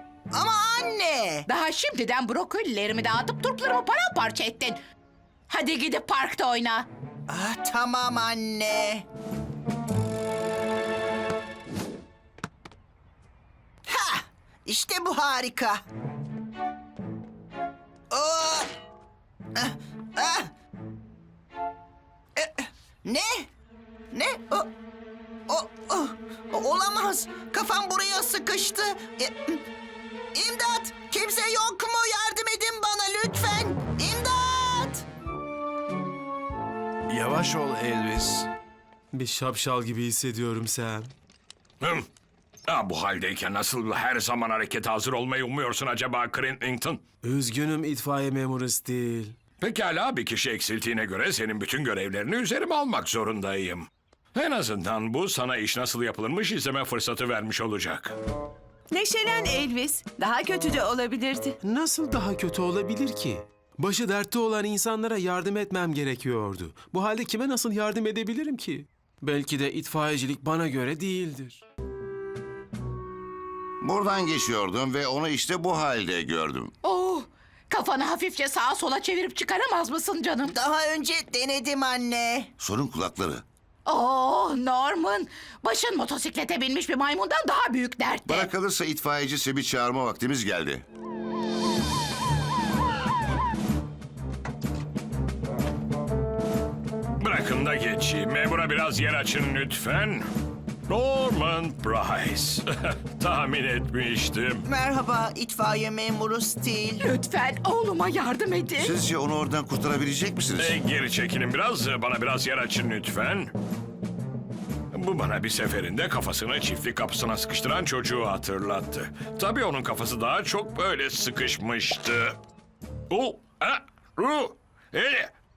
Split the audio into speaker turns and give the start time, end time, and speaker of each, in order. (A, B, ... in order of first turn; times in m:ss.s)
0:00.3-0:01.5 A
0:01.5-0:04.8 B
0:05.5-0:06.9 B
0:07.3-0:09.1 A
0:13.9-0:15.8 A
0:18.1-0:18.7 A
0:19.6-0:20.5 A
0:22.4-0:23.5 A
0:24.1-0:24.7 A
0:25.5-0:29.6 A
0:30.3-0:35.0 A
0:37.1-0:38.1 C
0:39.1-0:41.1 D
0:41.8-0:42.1 E
0:42.7-0:47.0 E
0:47.2-0:49.4 D
0:49.6-0:58.2 E
0:59.0-1:01.5 F
1:01.6-1:11.6 D
1:13.8-1:16.7 C
1:16.8-1:20.5 B
1:20.5-1:22.5 A
1:22.6-1:23.4 C
1:23.8-1:28.5 B
1:28.3-1:30.8 C
1:37.2-1:40.3 E
1:40.9-1:44.7 E
1:44.7-1:47.0 A
1:47.0-1:49.0 B
1:48.8-1:50.8 C
1:50.6-1:53.5 E
1:54.9-2:02.4 E
2:03.1-2:05.3 E